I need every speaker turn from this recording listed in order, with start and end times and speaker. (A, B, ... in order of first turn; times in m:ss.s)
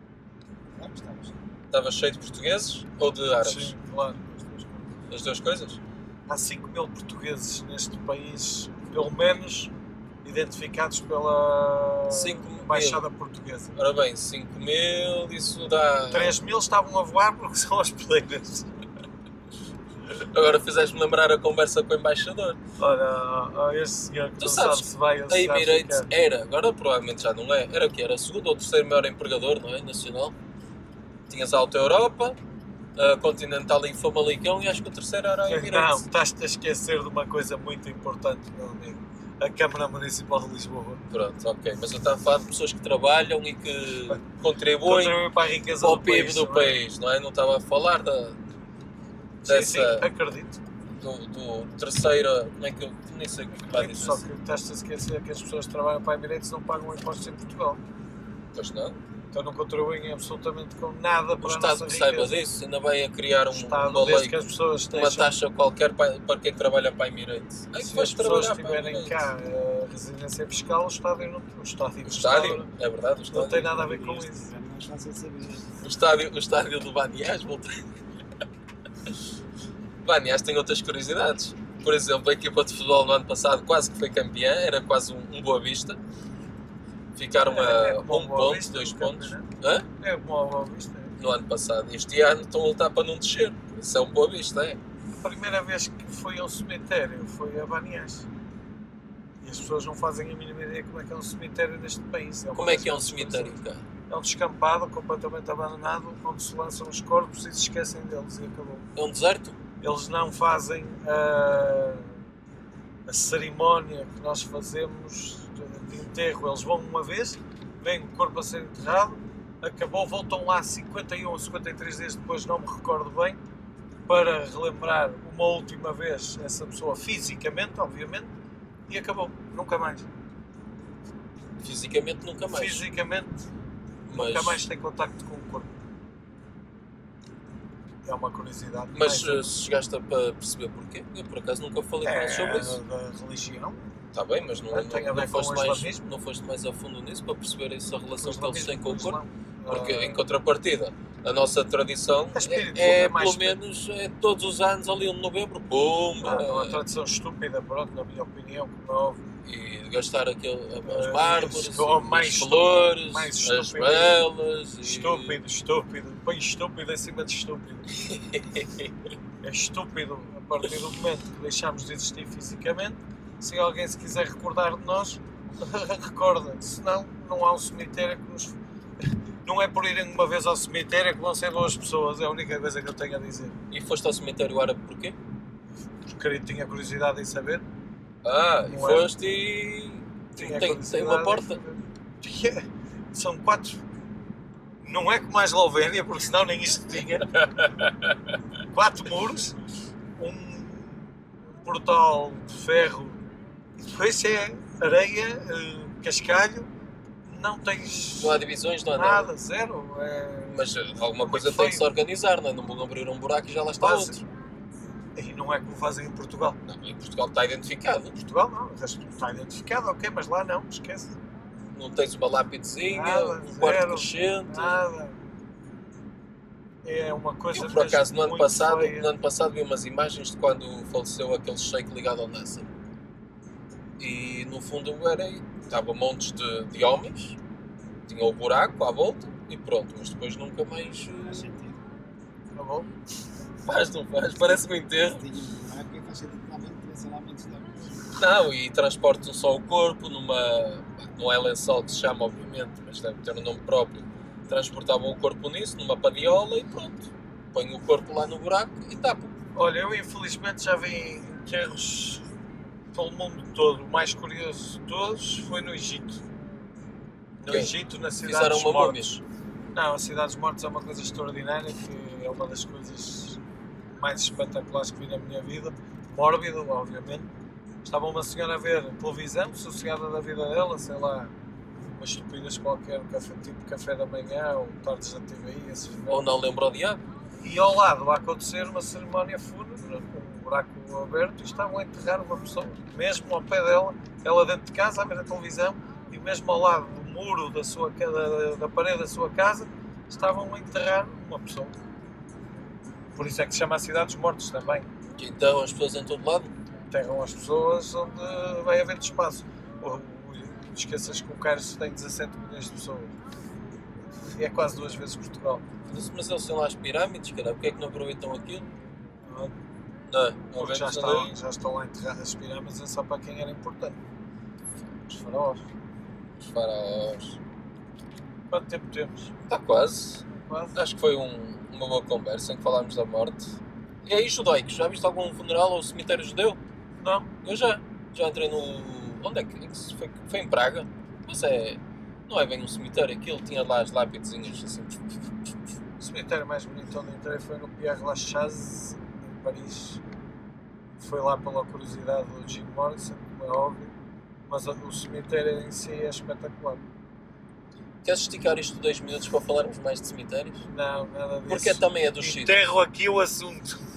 0:00.8-0:01.4 A
0:01.7-0:03.7 B
0:03.4-0:04.9 C
0:05.1-0:05.8 B
0:06.3-0:09.7 C
0:10.2-0:13.7 C
0:12.1-0:13.1 B
0:13.8-0:16.4 B
0:16.1-0:18.7 C
0:20.1-0:22.6 B
0:22.8-0:26.1 C
0:24.4-0:30.4 B
0:31.3-0:32.4 B
0:33.0-0:36.0 B
0:35.5-0:41.0 C
0:41.1-0:45.2 B
0:44.8-0:46.8 C
0:45.8-0:48.4 B
0:49.4-0:50.1 B
0:49.4-0:50.6 C
0:51.0-0:54.2 B
0:53.7-0:57.8 C
0:58.6-0:59.0 B
0:59.3-1:02.5 C
1:01.4-1:04.4 B
1:03.5-1:05.3 C
1:04.9-1:09.3 B
1:07.8-1:12.7 C
1:12.0-1:13.7 B
1:13.3-1:14.5 C
1:13.6-1:15.8 A
1:15.8-1:17.9 B
1:20.0-1:26.0 B
1:27.2-1:29.9 B
1:27.4-1:29.5 C
1:30.0-1:31.1 C
1:31.2-1:34.8 B
1:35.2-1:38.3 C
1:39.4-1:43.6 C
1:42.6-1:43.8 B
1:44.1-1:48.9 C
1:49.0-1:49.6 B
1:49.8-1:52.1 C
1:53.1-2:03.4 C
2:04.1-2:08.3 C
2:08.9-2:10.1 C
2:11.6-2:12.8 B
2:12.5-2:13.4 C
2:14.1-2:14.7 B
2:14.1-2:15.7 C
2:18.0-2:19.5 C
2:18.9-2:22.8 B
2:22.0-2:23.9 C
2:24.1-2:29.2 B
2:24.7-2:26.1 C
2:28.2-2:30.2 C
2:29.7-2:36.8 B
2:32.4-2:33.6 C
2:36.2-2:39.2 C
2:39.4-2:45.4 B
2:40.8-2:44.3 C
2:44.8-2:47.9 C
2:48.0-2:48.9 B
2:49.4-2:58.6 C
2:59.4-3:03.6 C
3:03.7-3:05.2 B
3:06.1-3:07.6 C
3:08.2-3:11.6 B
3:08.7-3:09.1 C
3:10.4-3:13.8 C
3:14.8-3:17.3 C
3:18.7-3:19.6 C
3:20.2-3:21.1 C
3:21.6-3:23.2 C
3:23.8-3:26.7 C
3:27.2-3:28.4 C
3:28.2-3:29.3 B
3:29.0-3:31.9 C
3:30.5-3:34.2 B
3:33.8-3:34.3 C
3:35.2-3:36.6 C
3:36.6-3:38.2 B
3:38.2-3:41.2 C
3:41.8-3:44.8 B
3:42.9-3:45.2 C
3:46.8-3:49.1 C
3:47.5-3:52.7 B
3:54.0-3:57.4 B
3:58.1-4:01.6 B
4:01.3-4:01.8 A
4:02.5-4:02.9 C
4:03.6-4:05.3 B
4:05.1-4:07.9 A
4:08.2-4:19.3 B
4:19.6-4:22.2 C
4:22.9-4:26.2 C
4:27.4-4:29.0 C
4:27.5-4:29.2 B
4:29.7-4:33.4 C
4:34.0-4:37.3 C
4:37.8-4:41.3 C
4:41.9-4:46.3 C
4:46.1-4:47.0 B
4:47.4-5:01.8 C
5:03.2-5:04.9 C
5:05.2-5:06.5 B
5:06.9-5:13.1 C
5:14.2-5:15.7 C
5:15.9-5:18.7 B
5:19.3-5:19.5 C
5:20.1-5:21.3 B
5:20.5-5:24.0 C
5:25.1-5:25.7 C
5:26.4-5:27.4 B
5:28.5-5:29.3 C
5:29.5-5:36.6 B
5:30.3-5:30.8 C
5:37.0-5:37.3 C
5:37.4-5:45.0 B
5:46.0-5:50.0 C
5:51.0-5:53.9 C
5:54.5-5:56.8 C
5:58.0-6:00.7 B
6:00.7-6:03.9 C
6:01.5-6:02.6 B